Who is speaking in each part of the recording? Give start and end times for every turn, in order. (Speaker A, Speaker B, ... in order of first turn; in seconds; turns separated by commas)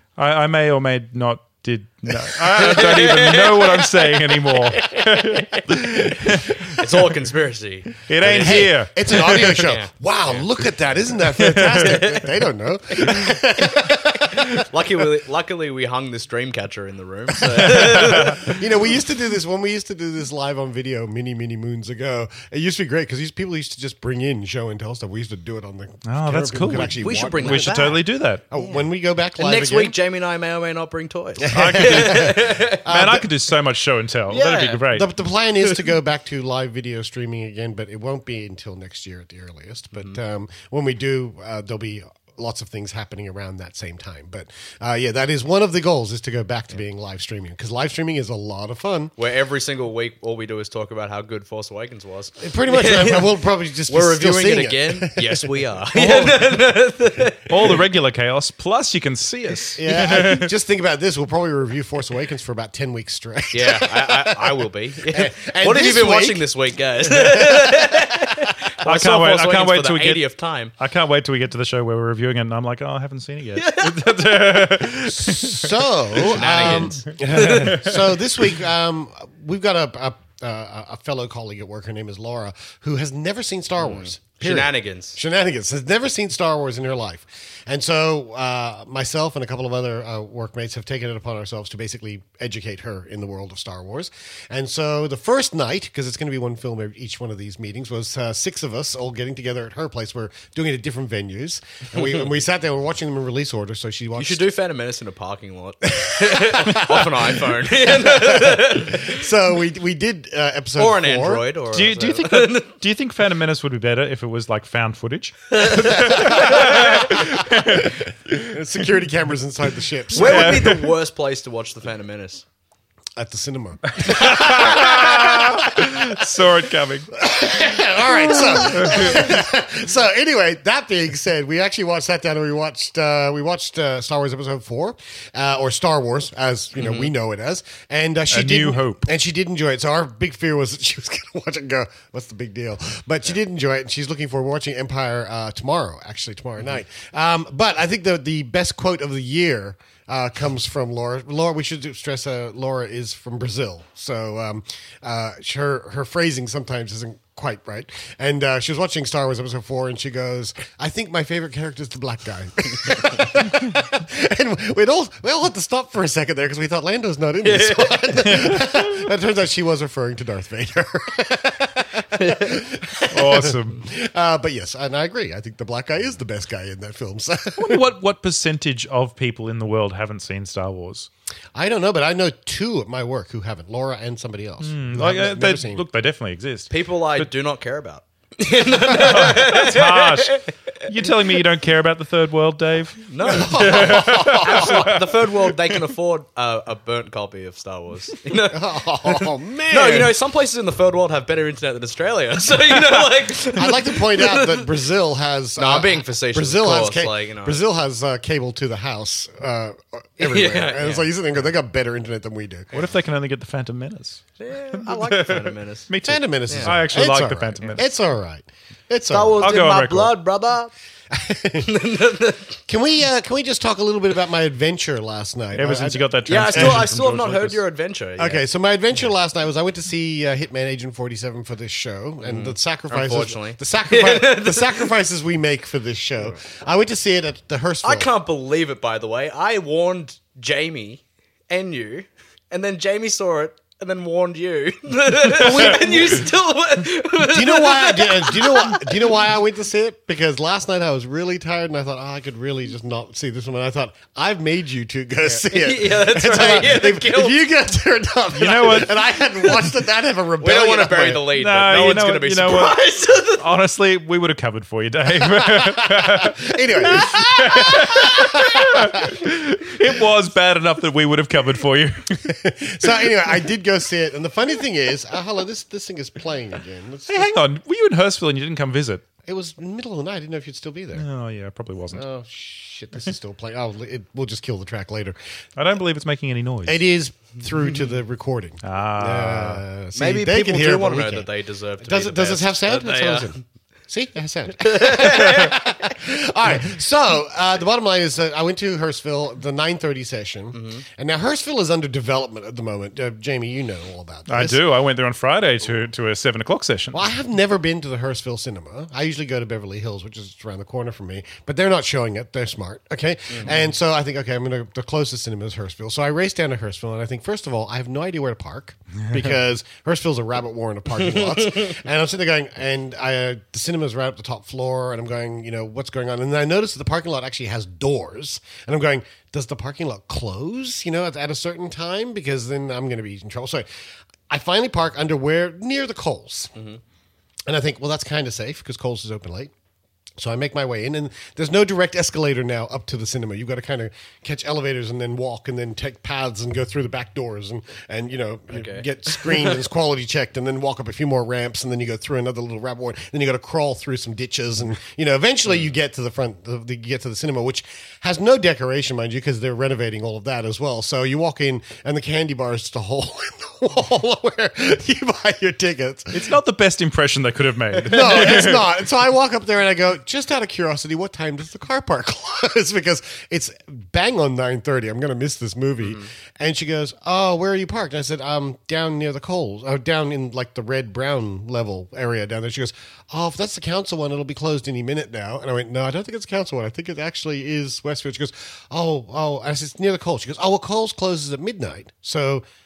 Speaker A: 0.2-6.8, Speaker B: 2.6-3.9, Speaker B: 6.7-10.5, Speaker A: 8.1-9.7, Speaker C: 8.3-14.6, Speaker A: 11.4-12.1, Speaker B: 11.8-12.1, Speaker B: 14.7-18.6, Speaker C: 17.5-27.8, Speaker A: 18.0-18.4, Speaker A: 26.1-28.4, Speaker B: 27.0-28.0, Speaker C: 28.5-30.0, Speaker B: 28.5-28.8, Speaker B: 29.4-32.8, Speaker C: 31.4-33.3, Speaker A: 31.5-35.1, Speaker B: 34.3-34.9, Speaker C: 34.9-49.1, Speaker B: 49.2-53.3, Speaker C: 52.4-55.6, Speaker B: 53.9-57.7, Speaker A: 55.9-56.6, Speaker A: 57.5-60.5, Speaker C: 59.8-66.5, Speaker B: 63.5-70.7, Speaker C: 67.1-68.2, Speaker A: 68.8-76.9, Speaker B: 73.6-74.4, Speaker C: 75.0-104.5, Speaker B: 76.3-77.8, Speaker A: 77.5-77.9, Speaker B: 83.8-85.2, Speaker B: 104.2-109.2, Speaker C: 105.9-111.5, Speaker B: 110.8-112.7, Speaker A: 111.7-118.5, Speaker B: 115.5-117.2, Speaker C: 116.1-120.7, Speaker A: 120.2-120.9, Speaker B: 120.2-122.5, Speaker C: 123.2-126.2, Speaker A: 123.9-127.1, Speaker C: 127.2-177.9, Speaker A: 128.3-129.3, Speaker B: 136.8-137.1, Speaker A: 138.3-139.1, Speaker B: 167.4-168.1, Speaker A: 168.2-168.7, Speaker B: 172.1-172.5, Speaker A: 173.1-173.8, Speaker A: 177.6-181.1, Speaker C: 181.6-185.8, Speaker A: 184.6-187.3, Speaker B: 186.7-190.4, Speaker A: 188.9-195.0, Speaker B: 193.1-198.6, Speaker C: 193.3-195.0, Speaker C: 198.4-200.2, Speaker B: 199.7-204.7, Speaker C: 203.6-212.7, Speaker B: 205.6-207.6, Speaker B: 210.2-211.1, Speaker A: 212.7-217.8, Speaker B: 214.4-215.9, Speaker C: 216.0-219.5, Speaker B: 216.5-216.8, Speaker B: 219.1-220.7, Speaker A: 219.4-220.2, Speaker C: 221.1-221.9, Speaker B: 221.6-222.6, Speaker C: 222.7-226.9, Speaker A: 225.5-227.6, Speaker B: 226.3-228.4, Speaker C: 228.2-238.1, Speaker B: 232.2-234.9, Speaker B: 237.8-248.9, Speaker C: 245.3-246.3, Speaker C: 247.2-261.3, Speaker B: 255.3-257.4, Speaker A: 258.3-259.0, Speaker B: 260.4-263.4, Speaker A: 261.3-262.8, Speaker A: 263.3-272.4, Speaker C: 265.4-269.2, Speaker C: 272.3-277.3, Speaker A: 277.1-279.1, Speaker C: 279.3-281.1, Speaker A: 280.9-282.0, Speaker C: 281.9-285.2, Speaker A: 285.6-286.8, Speaker C: 286.6-304.6, Speaker A: 288.6-289.6, Speaker B: 289.9-293.4, Speaker B: 294.6-295.6, Speaker B: 300.5-300.8, Speaker A: 304.3-307.1, Speaker C: 306.9-333.7, Speaker B: 321.0-321.7, Speaker C: 334.3-336.5, Speaker B: 336.6-336.8, Speaker C: 337.5-339.5, Speaker C: 340.2-366.4, Speaker B: 348.5-349.6, Speaker A: 366.1-368.7, Speaker C: 367.9-392.5, Speaker B: 375.8-376.1